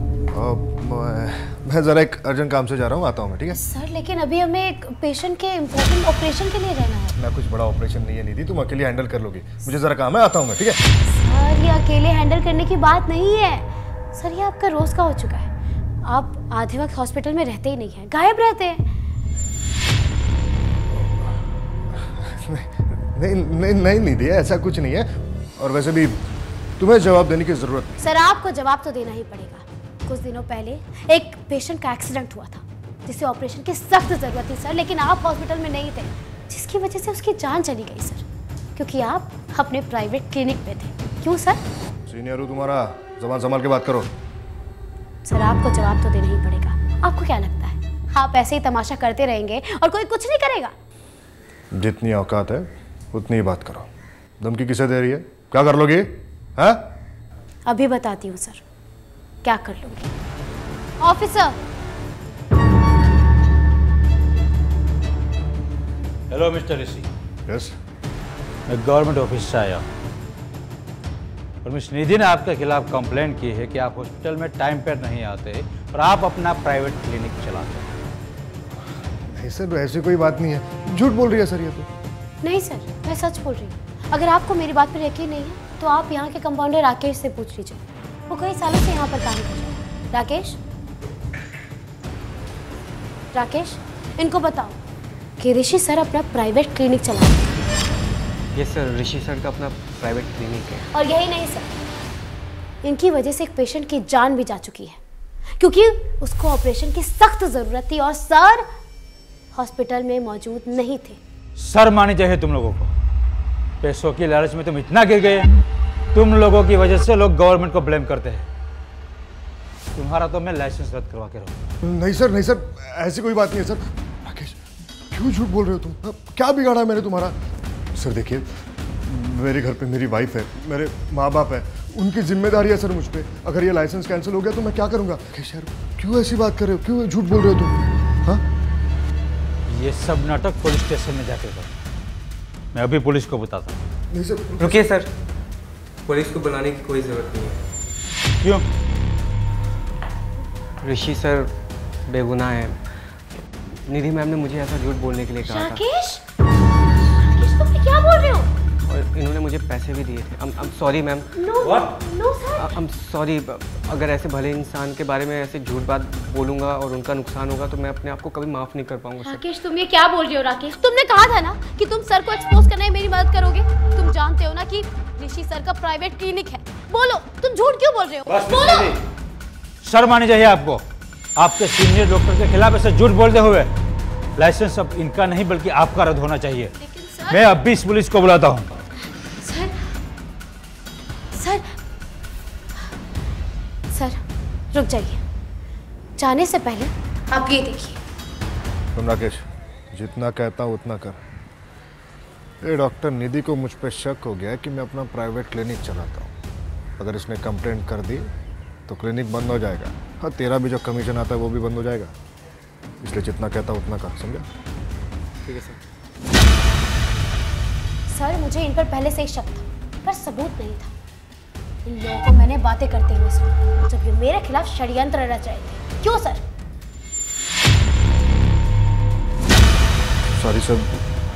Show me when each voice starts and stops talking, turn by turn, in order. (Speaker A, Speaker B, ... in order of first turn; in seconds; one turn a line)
Speaker A: 0.3-3.6
Speaker B: 3.5-7.2
Speaker A: 7.2-10.8
Speaker B: 11.0-15.5
Speaker B: 16.0-18.8
Speaker A: 22.0-26.2
Speaker A: 26.8-28.0
Speaker B: 28.0-41.6
Speaker A: 42.1-44.1
Speaker B: 45.2-50.8
Speaker A: 51.7-53.9
Speaker A: 54.4-56.9
Speaker B: 57.7-58.6
Speaker B: 59.4-60.1
Speaker B: 61.0-61.6
Speaker C: 66.3-67.1
Speaker A: 67.5-67.8
Speaker C: 68.7-69.8
Speaker C: 71.6-77.9
Speaker A: 79.2-81.9
Speaker B: 82.4-90.6
Speaker B: 93.3-94.8
Speaker B: 95.4-97.5
Speaker D: 98.5-100.9
Speaker B: 100.9-101.7
Speaker B: 102.8-105.0
Speaker B: 105.6-108.7
Speaker B: 109.5-111.2
Speaker C: 111.6-112.9
Speaker C: 113.8-115.5
Speaker C: 116.1-118.5
Speaker C: 119.9-121.5
Speaker A: 121.8-124.6
Speaker A: 125.1-127.4
Speaker A: 127.9-128.5
Speaker A: 129.0-138.4
Speaker C: 139.7-141.7
Speaker C: 142.7-143.8
Speaker A: 144.1-144.9
Speaker D: 144.6-145.1
Speaker D: 146.1-147.7
Speaker C: 148.4-148.7
Speaker D: 150.8-151.5
Speaker D: 152.1-155.8
Speaker B: 155.4-156.2
Speaker B: 157.2-158.5
Speaker D: 158.8-161.3
Speaker B: 161.3-162.8
Speaker C: 161.6-161.9
Speaker D: 162.6-169.5
Speaker B: 169.2-179.0
Speaker C: 178.3-179.0
Speaker C: 179.8-180.8
Speaker C: 181.4-183.7
Speaker C: 184.4-186.7
Speaker B: 186.8-187.4
Speaker C: 187.3-188.7
Speaker B: 189.2-189.8
Speaker B: 191.3-191.7
Speaker B: 193.9-194.2
Speaker B: 194.7-195.2
Speaker B: 196.2-198.0
Speaker A: 198.9-201.2
Speaker A: 202.6-206.3
Speaker A: 207.0-208.3
Speaker A: 208.9-212.1
Speaker A: 213.0-214.5
Speaker D: 215.4-215.8
Speaker B: 218.1-220.9
Speaker B: 221.8-226.4
Speaker A: 230.3-231.1